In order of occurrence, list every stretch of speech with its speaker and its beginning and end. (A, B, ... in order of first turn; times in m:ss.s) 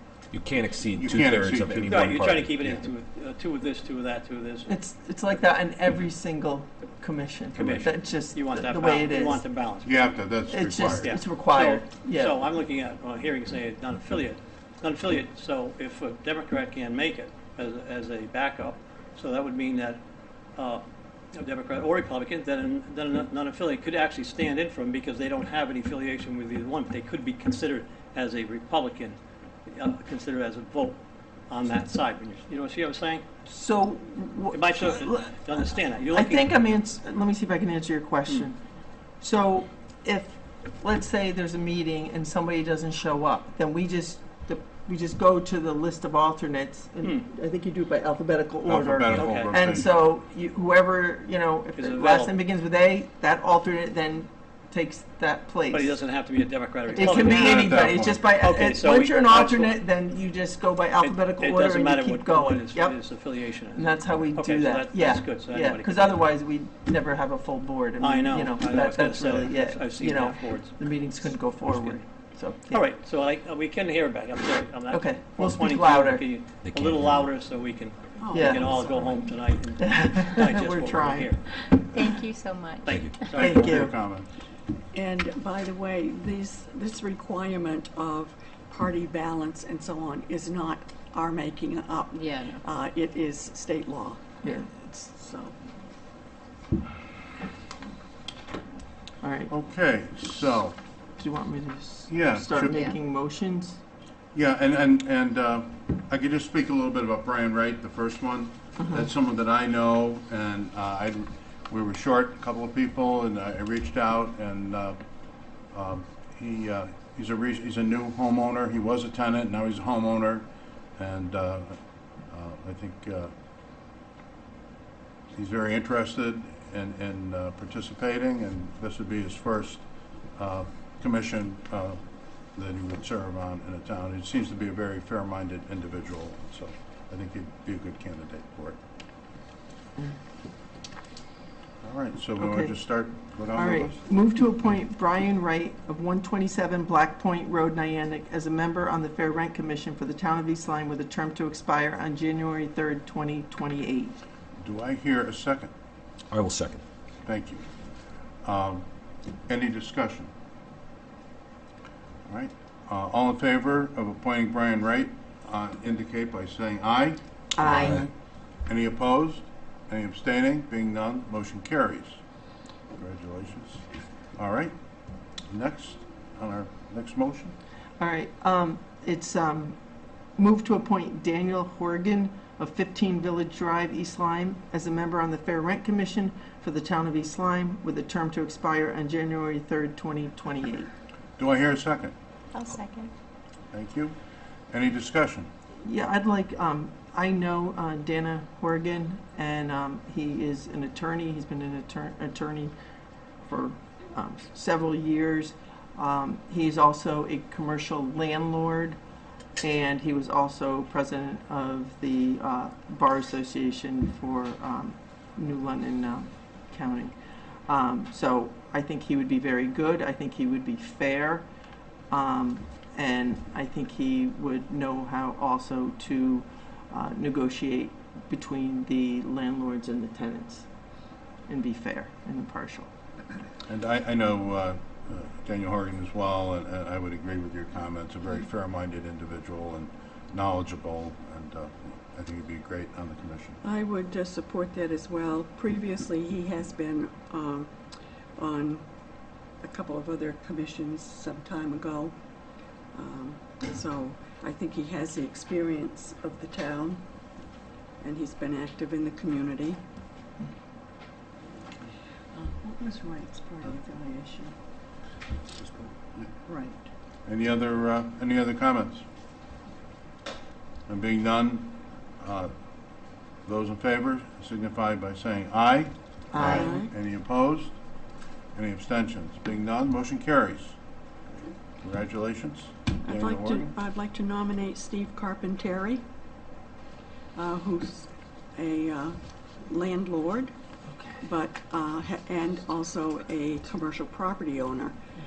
0:00.3-0:02.8 A
0:01.0-0:02.1 B
0:01.9-0:04.7 C
0:04.6-0:09.4 D
0:07.6-0:07.8 A
0:07.6-0:10.1 C
0:09.8-0:11.1 B
0:10.5-0:12.4 D
0:11.0-0:20.0 C
0:20.6-0:20.8 C
0:21.3-0:29.2 C
0:29.7-0:31.0 C
0:31.5-0:33.2 C
0:33.4-0:38.6 D
0:34.5-0:36.5 C
0:39.2-0:56.0 D
0:48.6-0:49.9 B
0:49.1-0:49.6 C
0:51.8-0:52.3 C
0:55.7-0:57.8 C
0:56.9-1:03.0 D
0:57.0-0:57.7 E
0:57.2-0:58.2 B
0:58.4-0:59.8 C
1:01.0-1:06.2 C
1:03.7-1:12.8 D
1:08.0-1:12.0 C
1:12.7-1:21.5 C
1:14.9-1:16.3 D
1:16.6-1:17.3 A
1:18.2-1:19.2 F
1:18.3-1:18.7 D
1:19.8-1:21.3 D
1:21.7-1:23.3 E
1:22.8-1:23.9 C
1:23.3-1:24.3 B
1:23.3-1:23.9 D
1:24.9-1:34.2 F
1:32.1-1:32.6 E
1:34.4-1:35.5 D
1:39.2-1:39.5 D
1:39.5-1:40.8 B
1:41.2-1:43.8 D
1:42.1-1:42.8 B
1:42.6-1:43.0 E
1:44.3-1:55.0 B
1:55.7-2:00.4 B
2:01.0-2:01.8 B
2:02.3-2:03.3 B
2:05.4-2:09.8 B
2:10.4-2:12.0 B
2:12.5-2:18.8 B
2:21.8-2:24.0 B
2:22.4-2:22.7 D
2:23.5-2:34.2 D
2:34.6-2:35.7 B
2:36.3-2:36.8 A
2:37.2-2:37.6 B
2:38.4-2:38.8 B
2:39.5-2:40.3 B
2:42.3-2:48.0 B
2:47.6-2:48.1 D
2:48.7-2:52.2 B
2:53.0-2:53.8 B
2:54.4-2:54.7 B
2:55.5-2:57.5 B
2:58.0-2:59.8 D
3:00.4-3:10.9 D
3:11.4-3:12.1 B
3:12.5-3:13.1 E
3:13.7-3:14.1 B
3:14.7-3:15.5 B
3:15.8-3:22.7 D
3:23.4-3:29.0 D
3:29.6-3:37.2 D
3:37.7-3:41.4 D
3:42.1-3:50.6 D
3:51.5-3:52.9 D
3:53.7-4:03.6 B
4:03.6-4:07.7 F
4:08.4-4:08.8 F
4:09.6-4:12.1 F
4:12.9-4:17.0 F
4:18.0-4:19.8 F
4:22.3-4:24.5 F
4:26.5-4:26.8 F
4:27.2-4:29.0 B
4:30.9-4:32.5 B
4:33.4-4:37.8 B
4:36.3-4:36.8 D
4:36.5-4:36.9 F
4:38.5-4:40.8 B
4:41.8-4:43.7 B
4:43.0-4:46.0 F
4:47.4-4:50.5 F
4:50.9-4:51.2 D
4:51.2-4:54.9 F